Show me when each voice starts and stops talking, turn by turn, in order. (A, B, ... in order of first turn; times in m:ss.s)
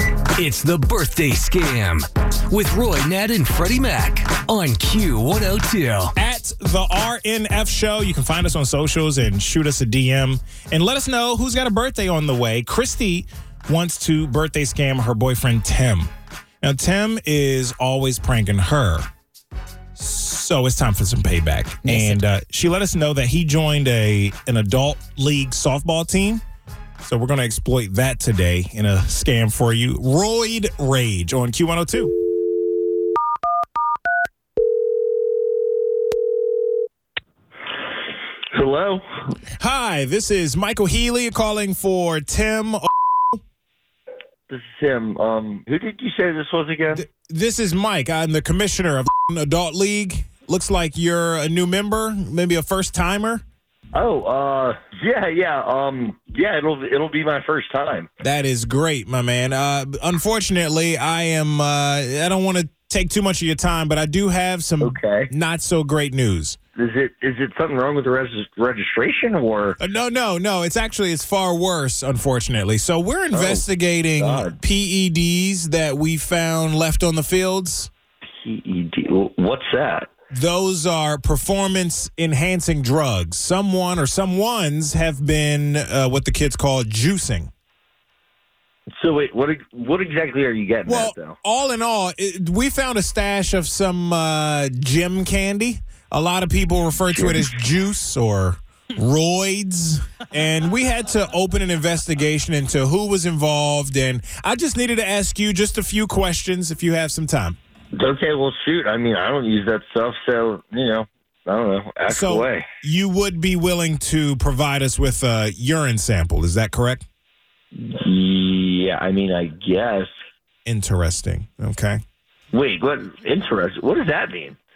0:00.4-0:06.1 A
0:06.2-0:16.1 B
0:16.6-0:19.0 B
0:19.9-0:26.4 B
0:27.0-0:32.1 B
0:38.5-0:39.0 C
0:39.6-0:42.9 B
0:44.5-0:47.0 C
0:46.9-0:53.4 B
0:53.9-0:58.1 C
0:58.2-1:06.6 B
1:04.8-1:05.3 C
1:06.8-1:09.8 C
1:09.8-1:17.9 B
1:13.3-1:13.7 C
1:14.2-1:14.6 C
1:18.4-1:20.1 C
1:20.3-1:27.5 B
1:28.9-1:31.4 C
1:30.8-1:47.6 B
1:37.0-1:37.5 C
1:47.9-1:52.7 C
1:52.0-1:57.0 B
1:57.8-2:00.1 C
2:00.6-2:02.0 B
2:02.5-2:04.6 C